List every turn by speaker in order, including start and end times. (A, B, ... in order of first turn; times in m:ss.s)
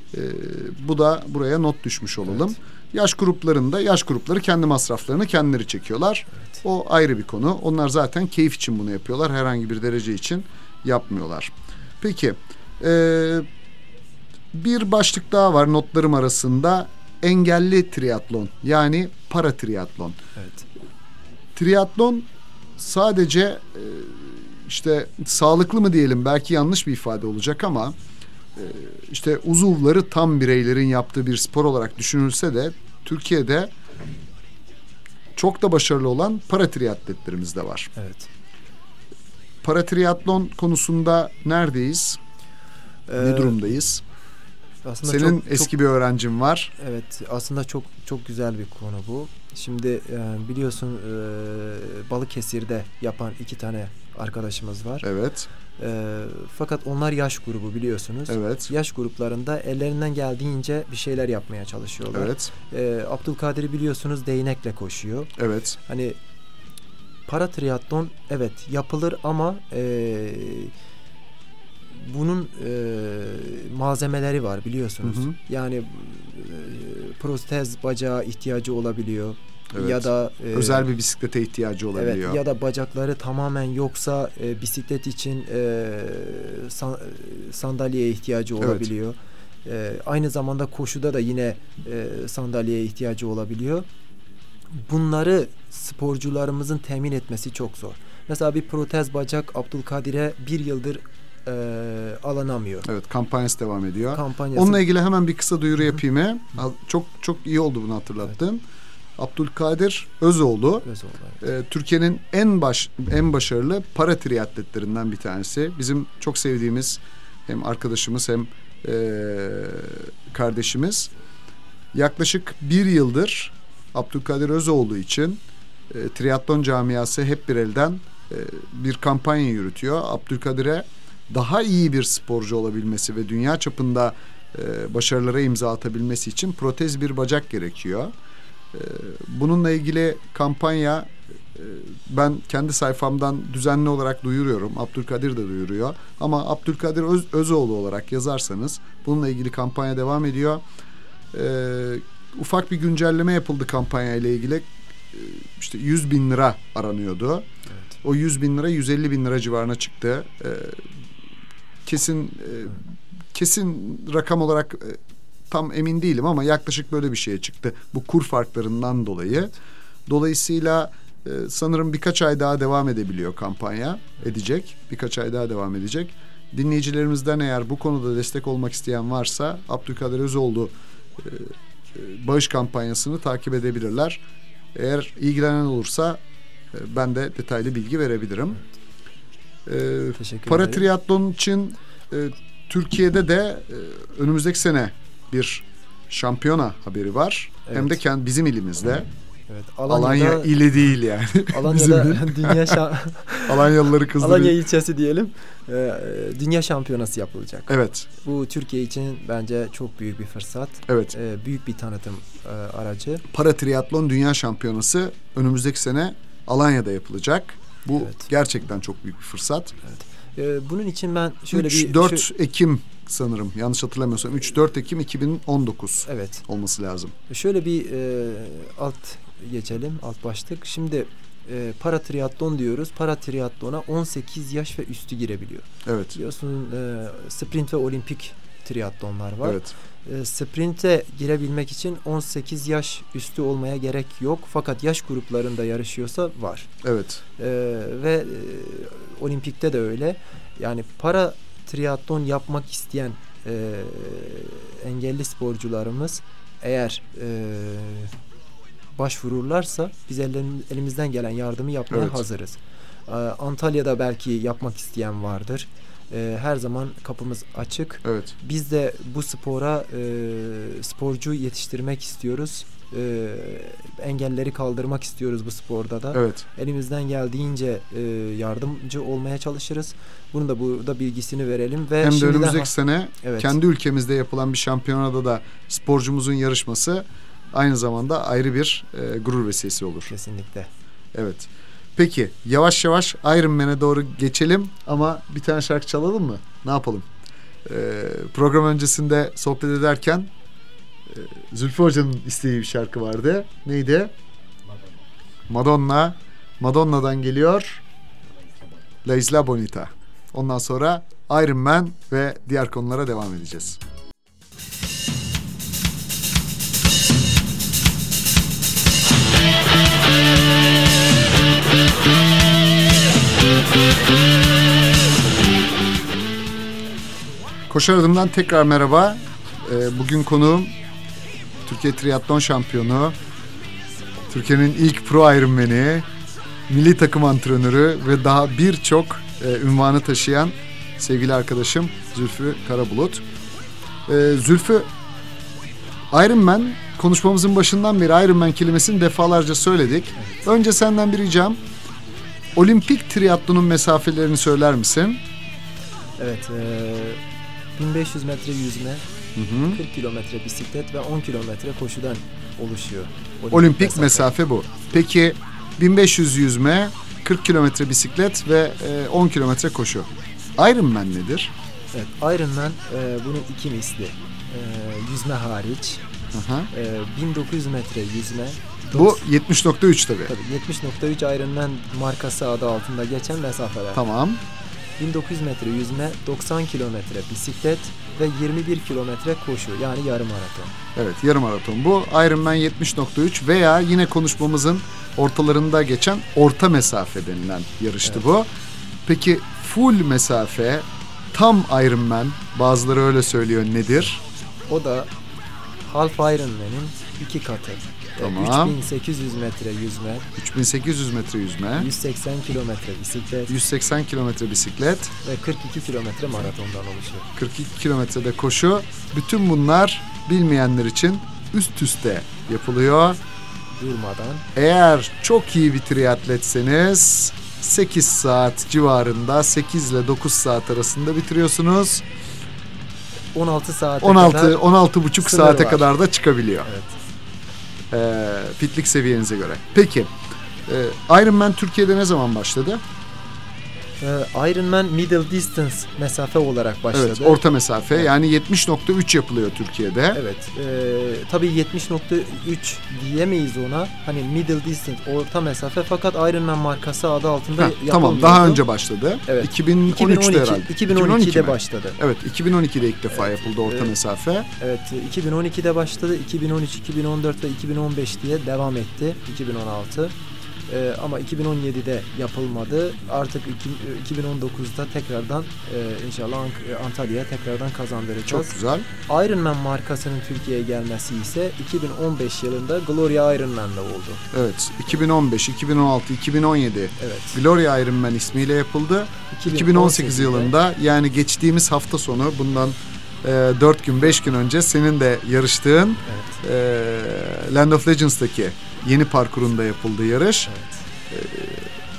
0:00.1-0:13.4 A
0:02.3-0:02.5 B
0:14.5-0:20.2 A
0:20.4-0:20.7 B
0:21.6-0:28.0 A
0:28.6-0:33.7 A
0:35.4-0:37.9 A
0:38.0-0:38.3 B
0:39.6-0:42.2 A
0:43.1-0:43.7 B
0:43.2-0:44.0 A
0:44.8-0:45.7 B
0:45.0-0:46.7 A
0:46.8-0:55.0 B
0:55.0-0:55.5 A
0:55.8-1:06.2 B
0:58.3-0:58.7 A
1:02.1-1:02.5 A
1:05.4-1:05.8 A
1:07.3-1:10.7 B
1:11.9-1:20.9 B
1:15.0-1:15.4 A
1:19.7-1:22.4 A
1:22.0-1:33.9 B
1:28.6-1:28.9 A
1:34.7-1:42.9 B
1:42.8-1:48.6 A
1:44.1-1:44.8 B
1:49.2-1:50.9 A
1:50.8-1:51.4 B
1:51.4-2:01.1 A
2:01.9-2:18.1 A
2:18.7-2:30.6 A
2:31.3-2:37.5 A
2:38.0-2:40.8 A
2:41.9-2:45.0 A
2:45.5-2:49.5 A
2:50.1-3:04.2 A
3:04.8-3:06.2 A
3:06.7-3:08.6 A
3:09.7-3:19.1 A
3:10.2-3:10.9 B
3:17.7-3:18.0 B
3:19.5-3:20.5 B
3:19.9-3:22.8 A
3:21.5-3:33.2 B
3:23.5-3:24.6 A
3:27.7-3:28.1 A
3:30.9-3:31.2 A
3:33.3-3:39.7 A
3:39.8-3:42.3 B
3:41.5-3:47.2 A
3:46.1-3:46.4 B
3:47.3-4:06.7 B
3:55.9-3:56.2 A
3:59.4-3:59.7 A
4:06.8-4:07.2 A
4:07.4-4:18.1 B
4:19.0-4:43.6 B
4:21.9-4:22.2 A
4:28.0-4:28.3 A
4:36.1-4:36.4 A
4:42.0-4:50.1 A
4:50.1-4:50.7 B
4:51.2-4:57.1 A
4:57.7-5:00.3 A
5:01.1-5:04.1 A
5:05.5-5:07.8 A
5:09.0-5:13.8 A
5:27.7-5:30.7 A
5:31.7-5:33.2 A
5:34.3-5:36.1 A
5:36.7-5:43.2 A
5:44.1-5:44.9 A
5:46.1-5:51.6 A
5:50.2-5:50.4 B
5:52.6-5:55.2 A
5:56.2-5:57.2 B
5:57.8-5:59.0 B
5:59.4-5:59.8 A
5:59.6-6:04.3 B
6:03.5-6:11.5 A
6:11.9-6:16.0 B
6:16.3-6:16.7 A
6:16.7-6:19.2 B
6:18.9-6:20.3 A
6:20.3-6:24.0 B
6:24.0-6:24.4 A
6:25.0-6:30.8 B
6:31.0-6:38.5 A
6:39.1-6:44.2 A
6:44.7-6:45.1 B
6:45.8-6:50.3 B
6:48.2-6:48.8 A
6:50.4-6:51.9 A
6:51.8-6:53.5 B
6:53.5-6:55.1 A
6:55.2-6:57.3 B
6:57.4-7:03.2 A
7:03.7-7:04.5 B
7:04.6-7:12.0 A
7:13.3-7:14.6 B
7:14.0-7:16.7 A
7:15.2-7:15.9 B
7:16.7-7:17.0 B
7:17.9-7:20.1 A
7:20.7-7:22.8 A
7:24.0-7:27.4 B
7:26.9-7:30.2 A
7:30.1-7:38.6 B
7:37.6-7:44.5 A
7:39.3-7:42.0 B
7:43.1-7:43.9 B
7:44.6-7:50.1 B
7:50.7-7:58.6 B
7:58.3-7:58.9 A
7:59.1-8:04.2 B
8:04.3-8:20.5 A
8:07.0-8:07.4 B
8:09.3-8:10.5 B
8:16.0-8:16.4 B
8:20.5-8:20.8 B
8:21.1-8:21.7 A